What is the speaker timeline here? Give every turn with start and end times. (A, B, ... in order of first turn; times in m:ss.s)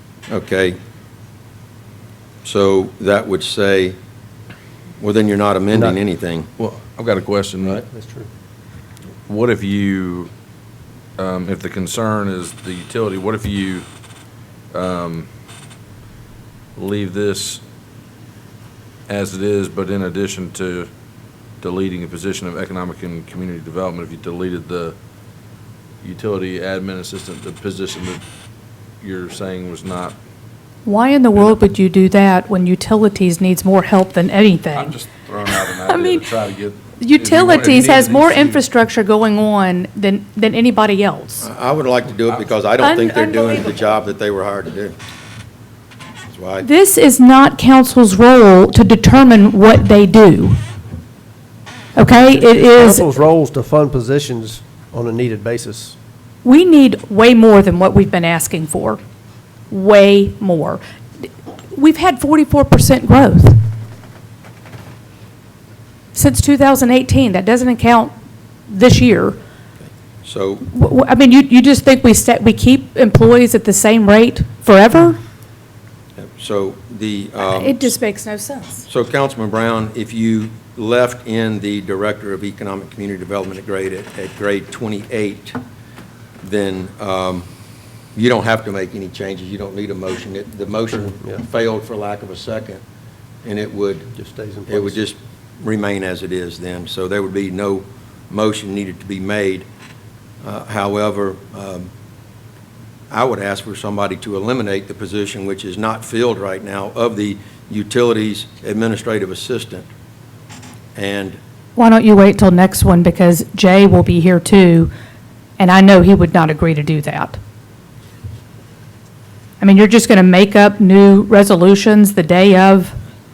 0:00.3-0:00.8 A
0:02.4-0:04.0 A
0:05.0-0:06.5 A
0:05.7-0:06.0 B
0:06.6-0:07.8 C
0:07.6-0:08.3 B
0:09.3-0:10.3 C
0:11.2-0:13.9 C
0:14.7-0:15.3 C
0:16.8-0:17.6 C
0:19.1-0:20.9 C
0:21.6-0:25.0 C
0:26.0-0:28.2 C
0:29.0-0:30.2 C
0:30.8-0:34.9 D
0:34.7-0:38.6 C
0:35.4-0:36.3 D
0:37.0-0:41.5 D
0:41.4-0:45.0 A
0:42.8-0:43.9 D
0:46.3-0:46.7 A
0:46.6-0:50.6 D
0:52.0-0:53.1 D
0:52.0-0:56.0 B
0:56.4-0:59.0 D
0:59.7-1:03.6 D
1:06.1-1:08.1 D
1:08.7-1:09.4 D
1:09.8-1:10.6 A
1:10.7-1:15.2 D
1:16.2-1:17.9 A
1:17.4-1:18.8 D
1:18.9-1:25.6 A
1:26.4-1:27.5 A
1:28.2-1:32.8 A
1:31.1-1:31.4 B
1:33.4-1:34.1 A
1:34.2-1:35.0 B
1:34.7-1:39.7 A
1:40.4-1:41.9 A
1:43.1-1:49.9 A
1:51.0-1:51.4 A
1:51.8-1:54.9 D
1:55.6-1:57.4 D
1:59.6-2:03.0 D